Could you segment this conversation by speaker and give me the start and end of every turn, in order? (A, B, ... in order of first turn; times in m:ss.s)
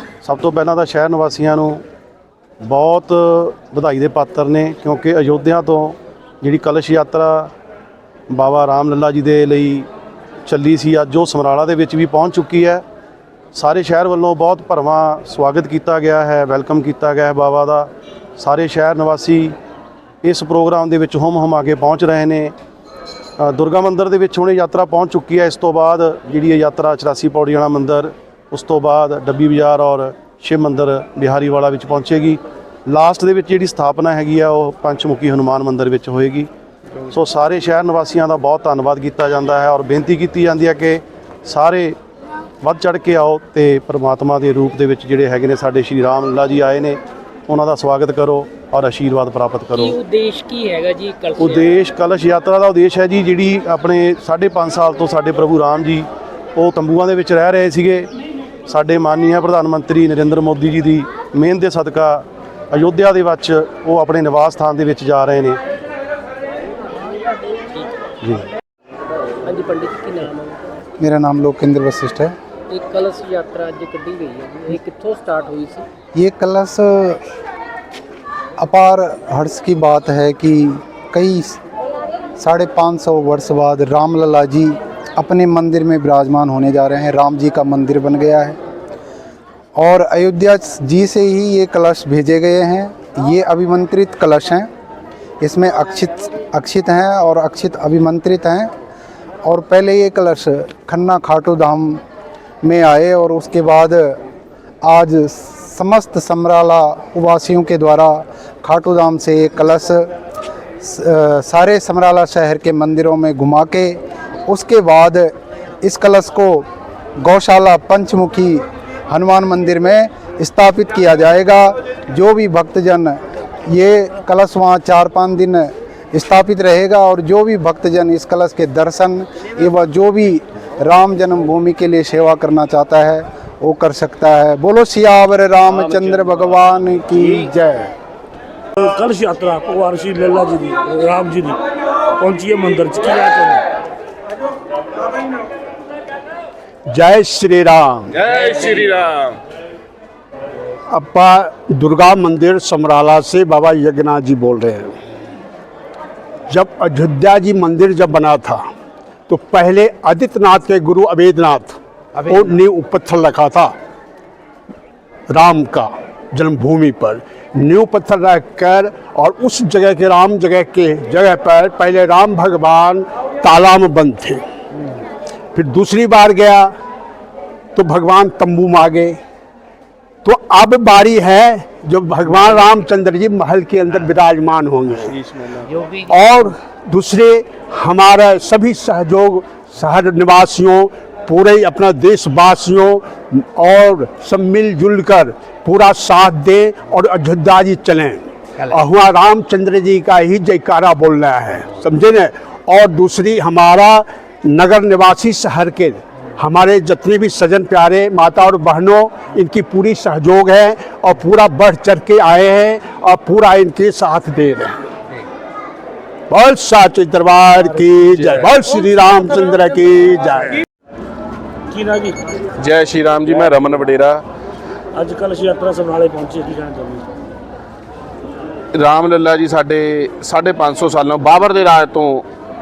0:00.2-0:01.8 A
0:02.6-0:07.5 A
0:08.3-0:09.9 A
0:10.5-0:12.8 A
0:13.5-0:19.6 A
0:20.2-0:22.5 A
0:23.4-0:36.5 A
0:37.1-0:42.0 A
0:42.6-0:50.0 A
0:49.7-0:51.7 B
0:51.4-0:58.1 A
0:58.7-1:05.6 A
1:07.6-1:07.9 B
1:09.4-1:10.7 B
1:11.0-1:12.4 C
1:12.7-1:15.8 B
1:16.1-1:17.2 C
1:18.6-1:21.6 C
1:22.4-1:28.6 C
1:29.8-1:34.7 C
1:35.4-1:38.7 C
1:39.4-1:42.0 C
1:42.6-1:44.2 C
1:44.8-1:50.1 C
1:50.8-1:56.6 C
1:57.2-2:17.9 C
2:18.8-2:23.7 D
2:26.9-2:28.2 E
2:28.3-2:29.4 F
2:30.9-2:34.9 E
2:36.5-2:38.6 E
2:39.3-2:43.7 E
2:45.3-2:54.4 E
2:55.5-2:56.7 E
2:57.7-2:59.2 E
3:00.2-3:05.2 E
3:05.8-3:34.8 E
3:36.3-3:40.6 E
3:41.7-3:42.2 D
3:42.6-3:44.2 F
3:44.9-3:47.1 D
3:48.7-3:52.2 F